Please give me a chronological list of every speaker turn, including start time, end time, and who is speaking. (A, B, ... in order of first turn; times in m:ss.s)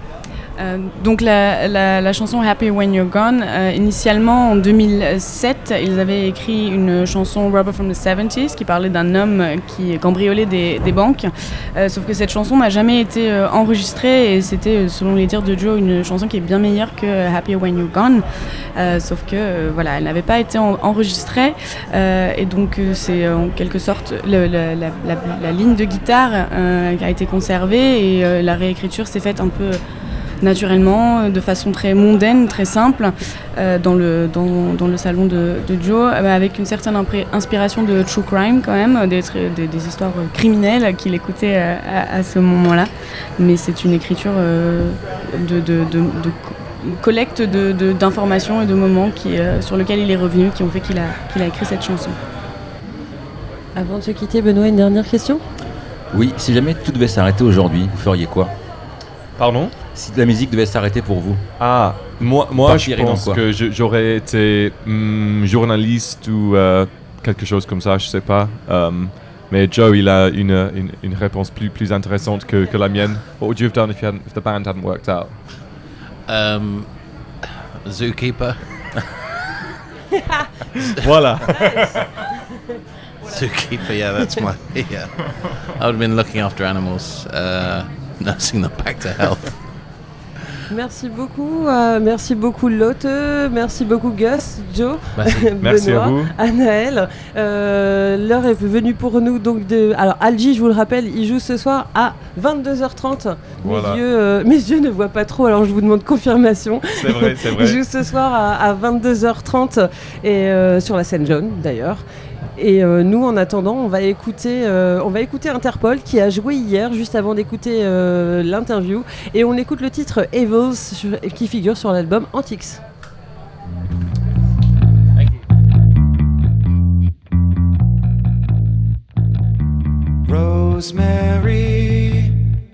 0:00.6-0:18.2 A
0:18.8-0:29.8 A
0:30.4-0:52.2 A
0:53.8-0:55.4 B
0:56.1-0:58.5 C
0:59.4-0:59.8 D
1:00.0-1:01.4 C
1:01.6-1:15.4 D
1:02.3-1:03.4 C
1:16.3-1:17.0 E
1:17.8-1:18.9 E
1:21.0-1:21.9 D
1:23.2-1:29.7 E
1:30.7-1:52.0 B
1:35.2-1:35.5 E
1:35.6-1:36.3 D
1:43.6-1:44.0 D
1:47.0-1:47.8 D
1:52.6-2:02.8 B
2:10.3-2:12.3 F